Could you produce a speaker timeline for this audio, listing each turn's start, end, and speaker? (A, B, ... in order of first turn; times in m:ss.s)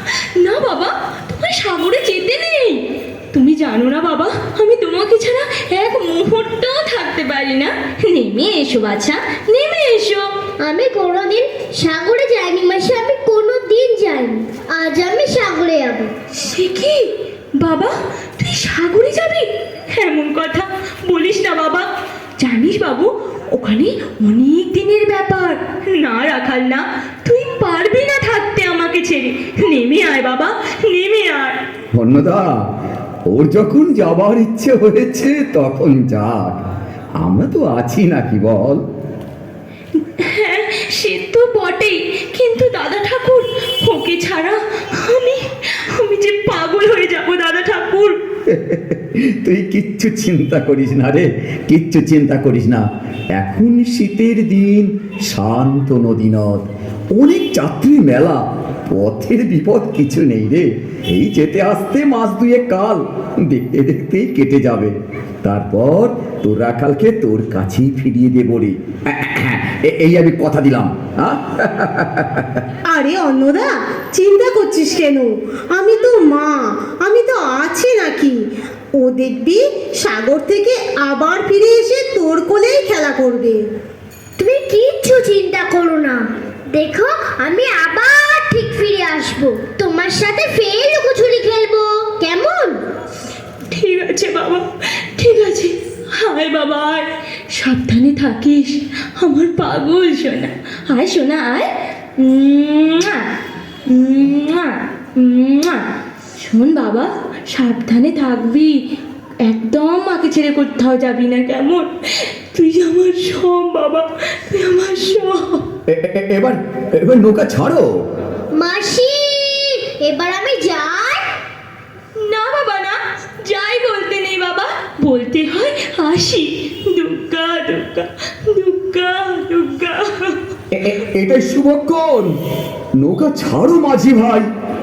0:00.4-0:10.3 A
0:10.6-0:16.1 B
0:16.4-0:31.6 A
0:32.0-0:32.6 C
0:33.3-0:36.6 C
0:37.2-0:38.8 C
0:40.2-0:48.2 A
0:48.5-1:12.6 C
1:12.9-1:18.4 D
1:19.0-1:23.6 D
1:24.4-1:32.8 B
1:33.7-1:43.3 A
1:43.9-1:48.8 A
1:49.4-1:55.6 A
1:55.9-1:58.0 C
1:58.5-2:01.2 B
2:02.2-2:10.4 A
2:10.7-2:12.3 C
2:13.0-2:14.5 C